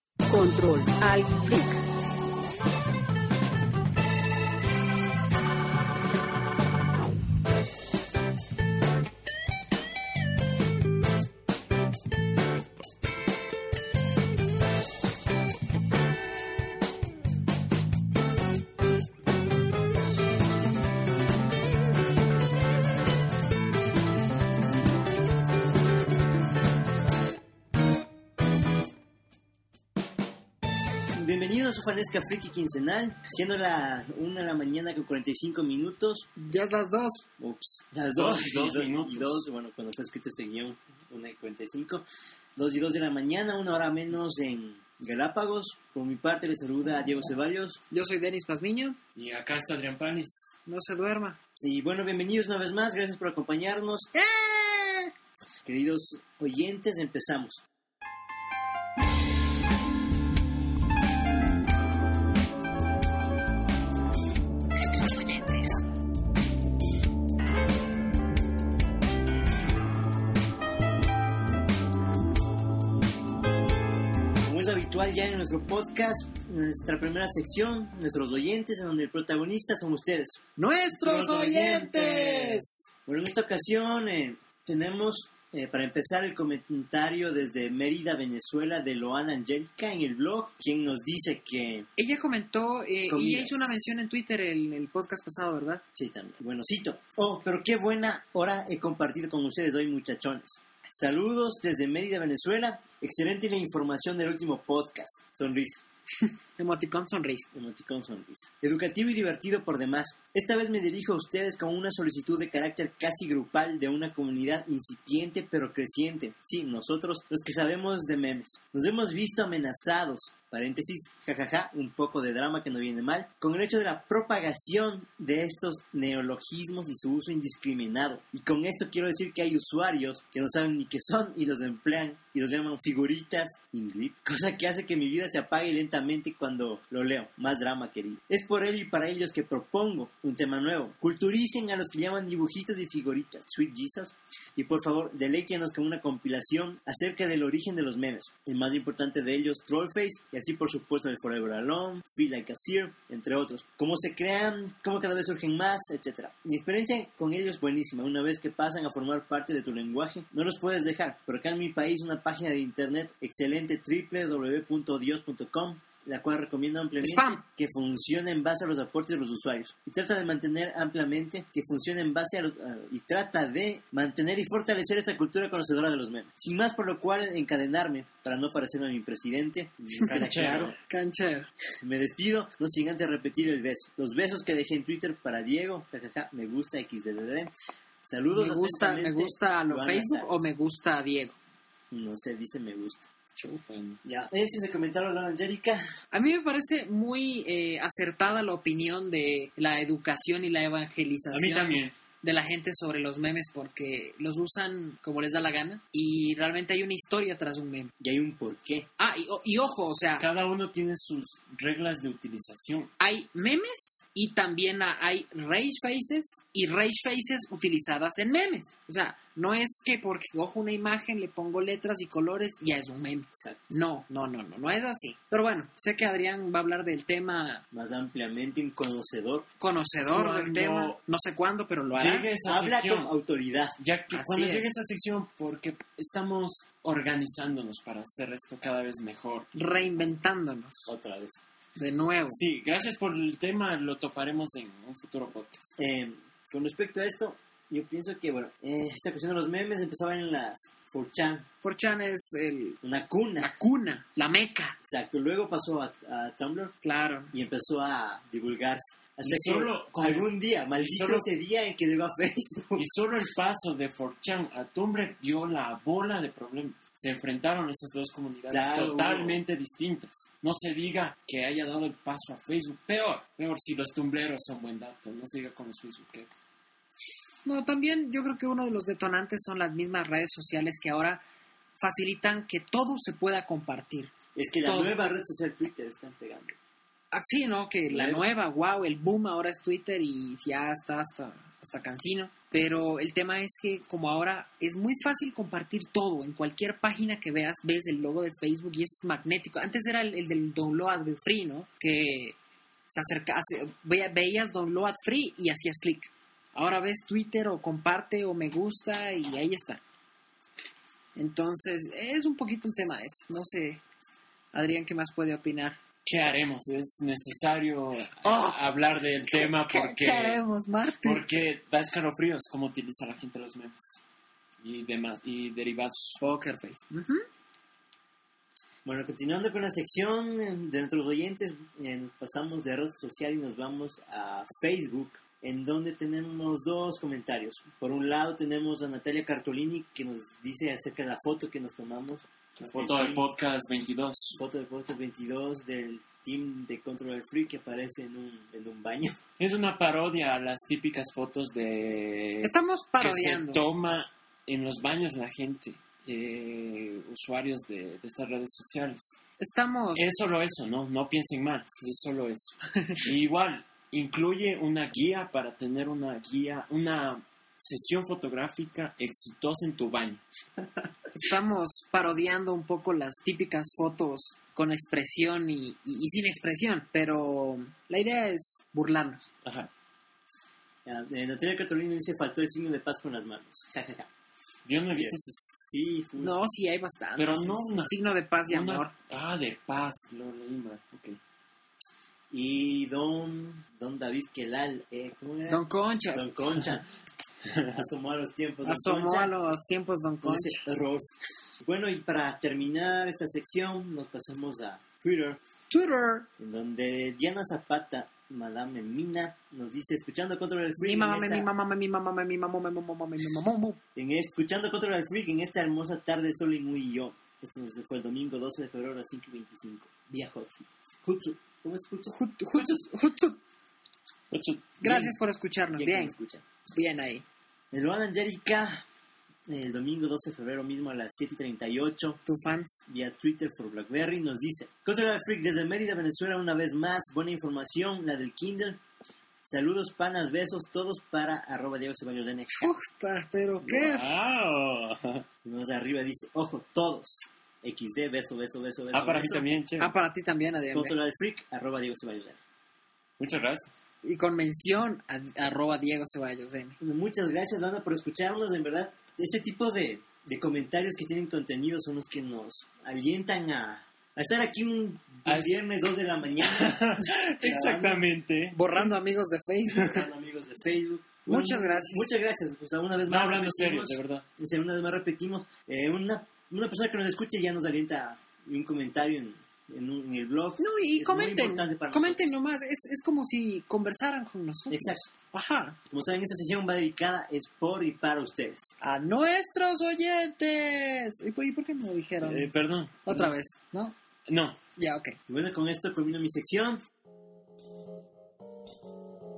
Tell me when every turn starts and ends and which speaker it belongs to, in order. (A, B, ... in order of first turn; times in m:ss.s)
0:00.3-0:01.8 A
0:31.2-0:36.3 B
0:36.4-0:37.3 C
0:37.4-0:42.0 B
0:38.2-0:39.5 D
0:42.6-0:47.8 B
0:47.9-0:49.0 C
0:49.2-0:50.6 D
0:50.7-0:51.4 C
0:51.6-0:54.1 B
0:54.2-0:55.1 C
0:55.6-0:57.6 B
1:04.8-1:05.8 A
1:14.4-1:20.4 B
1:20.6-1:22.6 C
1:20.9-1:31.9 B
1:32.0-1:35.8 C
1:33.1-1:33.9 B
1:36.0-1:45.8 B
1:46.6-1:47.5 C
1:47.5-3:00.7 B
2:47.0-2:47.4 C
3:00.0-3:01.5 C
3:00.0-3:00.8 D
3:01.8-3:07.5 B
3:08.0-3:10.5 B
3:08.3-3:11.4 C
3:11.9-3:13.0 B
3:13.4-3:14.0 D
3:14.0-3:15.8 B
3:16.1-3:27.9 C
3:21.3-3:21.9 D
3:28.0-3:28.9 B
3:29.0-3:30.3 C
3:30.2-3:32.9 D
3:33.0-3:47.6 C
3:43.3-3:43.6 B
3:47.7-3:49.5 B
3:49.6-3:52.3 C
3:50.1-3:51.0 D
3:52.0-3:53.1 D
3:52.4-3:53.8 B
3:53.8-3:59.5 D
3:54.1-3:54.7 C
3:59.6-4:00.9 C
4:00.9-4:01.4 B
4:01.8-4:02.4 C
4:02.3-4:05.8 D
4:05.8-4:11.5 B
4:11.6-4:12.8 C
4:12.8-4:13.6 B
4:13.4-4:14.8 C
4:14.8-4:16.8 B
4:16.8-4:17.3 C
4:17.3-4:22.9 B
4:19.2-4:21.3 D
4:22.8-4:36.4 D
4:28.5-4:29.4 B
4:37.5-4:41.2 C
4:41.8-4:44.1 C
4:44.4-4:46.6 B
4:44.6-4:44.9 C
4:47.1-5:02.4 C
4:47.9-4:48.2 B
5:02.9-5:09.8 C
5:11.2-5:13.8 C
5:14.5-5:15.8 C
5:16.0-5:20.4 D
5:18.2-5:18.7 C
5:19.3-5:21.2 C
5:21.0-5:24.0 D
5:24.6-5:26.2 D
5:26.2-5:27.2 C
5:28.8-5:43.2 B
5:42.6-5:44.4 D
5:44.4-5:49.2 B
5:49.4-5:59.2 D
5:52.4-5:53.6 C
5:59.4-6:00.0 C
6:00.0-6:10.2 D
6:02.8-6:03.0 C
6:11.1-6:19.2 C
6:19.4-6:19.7 D
6:20.8-6:24.1 B
6:24.7-6:25.9 D
6:24.9-6:26.3 B
6:26.2-6:28.9 C
6:27.2-6:27.9 D
6:28.5-6:31.2 D
6:32.3-6:36.9 B
6:35.5-6:36.3 C
6:37.4-6:37.8 D
6:37.7-6:39.4 B
6:38.6-6:40.6 C
6:40.2-6:41.1 B
6:41.6-6:45.4 B
6:45.7-6:46.3 C
6:46.4-6:51.5 B
6:50.8-6:53.8 C
6:54.0-7:02.8 B
7:02.1-7:03.4 C
7:04.3-7:05.1 D
7:04.8-7:06.1 C
7:05.8-7:06.4 B
7:06.7-7:07.2 C
7:07.7-7:08.8 B
7:09.5-7:12.2 B
7:12.3-7:12.8 C
7:12.9-7:18.8 B
7:19.4-7:22.7 B
7:22.6-7:24.1 C
7:23.6-7:25.3 D
7:25.4-7:29.5 B
7:28.9-7:29.9 D
7:29.8-7:31.0 C
7:30.7-7:32.4 B
7:33.2-7:33.8 D
7:34.0-7:36.8 C
7:36.8-7:46.8 B
7:45.3-7:45.6 D
7:46.4-7:48.9 D
7:47.4-7:48.0 B
7:47.4-7:47.8 C
7:48.5-7:50.1 C
7:49.7-8:02.3 B
7:51.3-7:52.1 C
7:53.1-7:54.2 D
8:00.6-8:05.8 C
8:04.7-8:05.1 B
8:05.9-8:08.7 B
8:08.8-8:12.5 C
8:12.2-8:13.3 D
8:13.1-8:14.0 C
8:14.3-8:14.6 D
8:14.8-8:15.2 C
8:15.3-8:16.8 B